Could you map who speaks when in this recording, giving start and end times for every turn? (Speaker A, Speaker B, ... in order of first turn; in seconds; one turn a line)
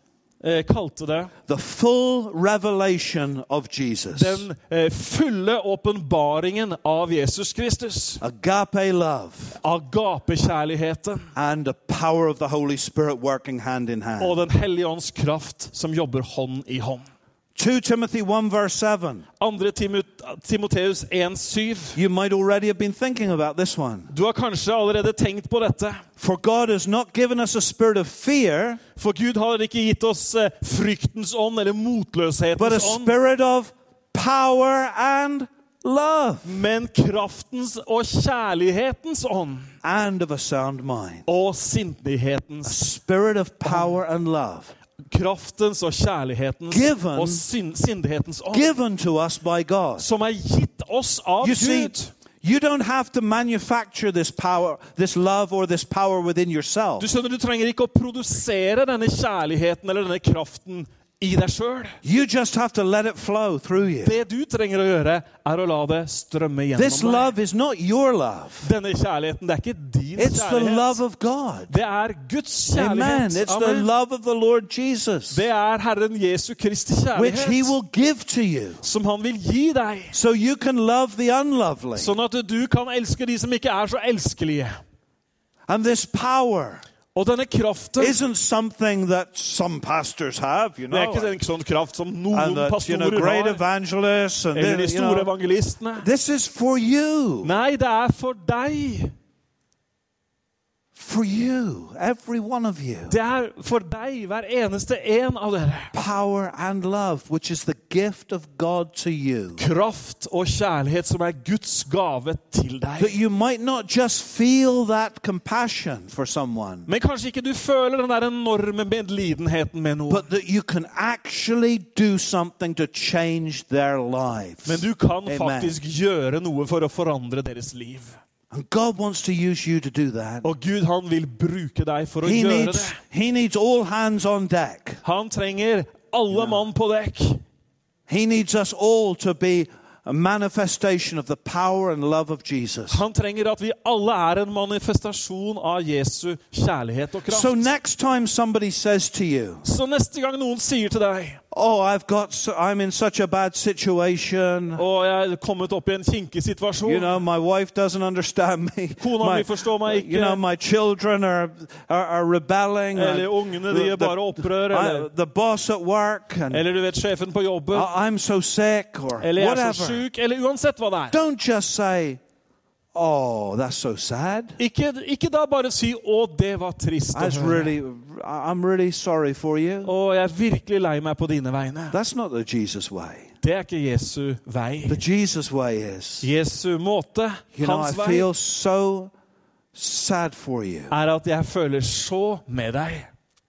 Speaker A: 0.4-1.3
Speaker B: 1.5-4.5
Speaker A: 4.1-8.2
Speaker B: 8.2-9.6
Speaker A: 9.6-11.3
Speaker B: 11.3-14.4
Speaker A: 14.2-17.1
Speaker B: 17.6-19.2
Speaker A: 19.4-22.0
Speaker B: 21.9-24.1
Speaker A: 24.1-26.0
Speaker B: 26.2-28.8
Speaker A: 28.9-33.1
Speaker B: 32.6-36.6
Speaker A: 36.4-39.7
Speaker B: 39.8-41.2
Speaker A: 41.2-42.8
Speaker B: 42.6-44.7
Speaker A: 43.6-43.9
Speaker A: 45.0-48.7
Speaker B: 46.7-47.4
Speaker B: 48.5-50.1
Speaker A: 50.0-52.1
Speaker B: 51.4-57.1
Speaker A: 57.0-62.0
Speaker B: 62.0-64.2
Speaker A: 64.0-67.3
Speaker B: 66.7-68.7
Speaker A: 68.6-71.0
Speaker B: 70.2-71.7
Speaker A: 71.7-73.9
Speaker B: 72.7-75.5
Speaker A: 75.3-77.7
Speaker B: 77.2-78.8
Speaker A: 78.8-80.2
Speaker B: 80.1-82.1
Speaker A: 81.9-84.8
Speaker B: 85.7-86.8
Speaker A: 87.1-88.2
Speaker B: 88.0-91.3
Speaker A: 90.9-93.6
Speaker B: 92.3-95.3
Speaker A: 94.5-96.1
Speaker B: 96.0-97.5
Speaker A: 97.4-99.1
Speaker B: 100.9-103.2
Speaker A: 103.1-105.9
Speaker B: 105.9-109.6
Speaker A: 109.6-113.2
Speaker B: 113.0-116.9
Speaker A: 116.9-120.3
Speaker B: 120.1-125.8
Speaker A: 124.7-128.2
Speaker B: 128.5-130.5
Speaker A: 130.4-133.0
Speaker B: 132.2-135.0
Speaker A: 135.0-137.4
Speaker B: 136.3-136.7
Speaker B: 138.1-143.0
Speaker A: 142.9-147.7
Speaker B: 147.3-149.6
Speaker A: 149.6-151.4
Speaker B: 151.5-154.8
Speaker A: 154.7-157.2
Speaker B: 156.8-166.7
Speaker A: 159.0-160.4
Speaker A: 162.9-165.1
Speaker A: 166.5-167.9
Speaker B: 167.7-170.0
Speaker A: 169.2-171.2
Speaker B: 171.1-172.2
Speaker B: 172.9-174.6
Speaker A: 174.6-177.7
Speaker B: 177.1-179.9
Speaker A: 179.8-182.0
Speaker B: 181.9-183.3
Speaker A: 183.4-185.0
Speaker B: 184.9-186.3
Speaker A: 186.2-188.3
Speaker B: 187.5-189.1
Speaker B: 189.7-190.9
Speaker A: 190.9-193.1